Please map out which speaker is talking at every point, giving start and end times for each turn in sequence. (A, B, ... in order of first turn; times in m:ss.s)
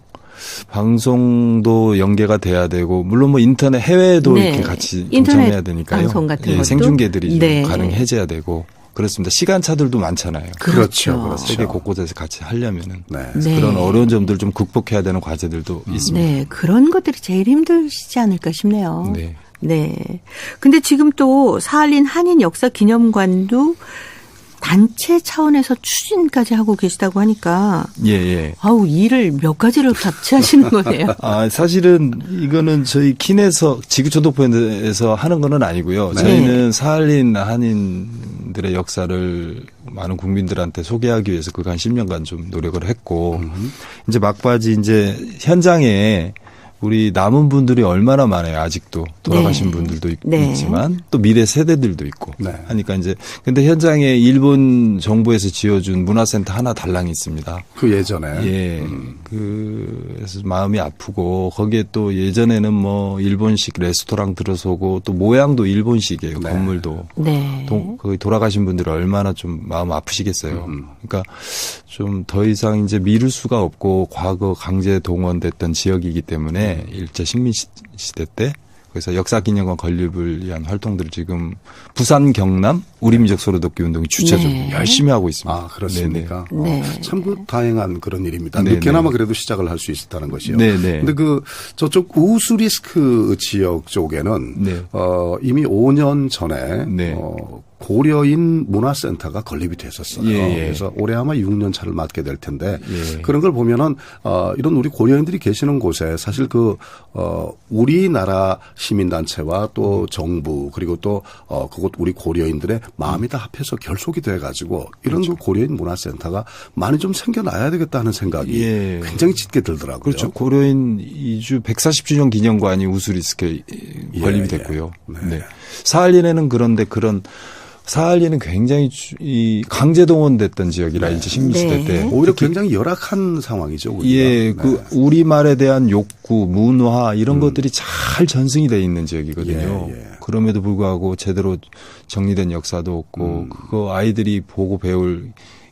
0:00.5-0:10.6 A
0:04.2-0:08.0 B
0:06.4-0:07.0 C
0:10.6-0:11.6 B
0:10.6-0:11.9 C
0:11.4-0:16.3 A
0:13.1-0:13.6 C
0:13.4-0:14.1 B
0:15.9-0:16.3 C
0:16.1-0:24.0 B
0:19.0-0:19.4 A
0:24.6-0:28.0 B
0:28.0-0:28.6 A
0:28.6-0:31.2 B
0:31.2-0:57.7 A
0:36.1-0:36.4 C
0:36.2-0:36.7 B
0:43.3-0:43.8 C
0:49.3-0:50.8 B
0:52.4-0:52.7 C
0:57.8-0:59.2 C
0:58.3-1:26.3 A
1:06.4-1:06.9 C
1:07.2-1:08.0 B
1:10.5-1:10.9 C
1:16.6-1:17.0 C
1:24.2-1:25.0 B
1:25.4-2:00.3 C
1:26.5-1:27.4 B
1:28.6-1:29.1 A
1:30.4-1:31.2 A
1:34.6-1:34.9 A
1:36.8-1:37.2 A
1:40.1-1:40.9 A
1:42.8-1:43.3 A
1:55.1-1:55.4 A
1:58.4-1:59.4 A
2:00.0-2:12.5 A
2:04.1-2:05.5 C
2:11.0-2:11.4 C
2:11.4-2:12.2 B
2:12.1-2:14.9 C
2:14.0-2:25.4 A
2:17.3-2:17.6 C
2:19.4-2:20.2 C
2:23.2-2:23.7 C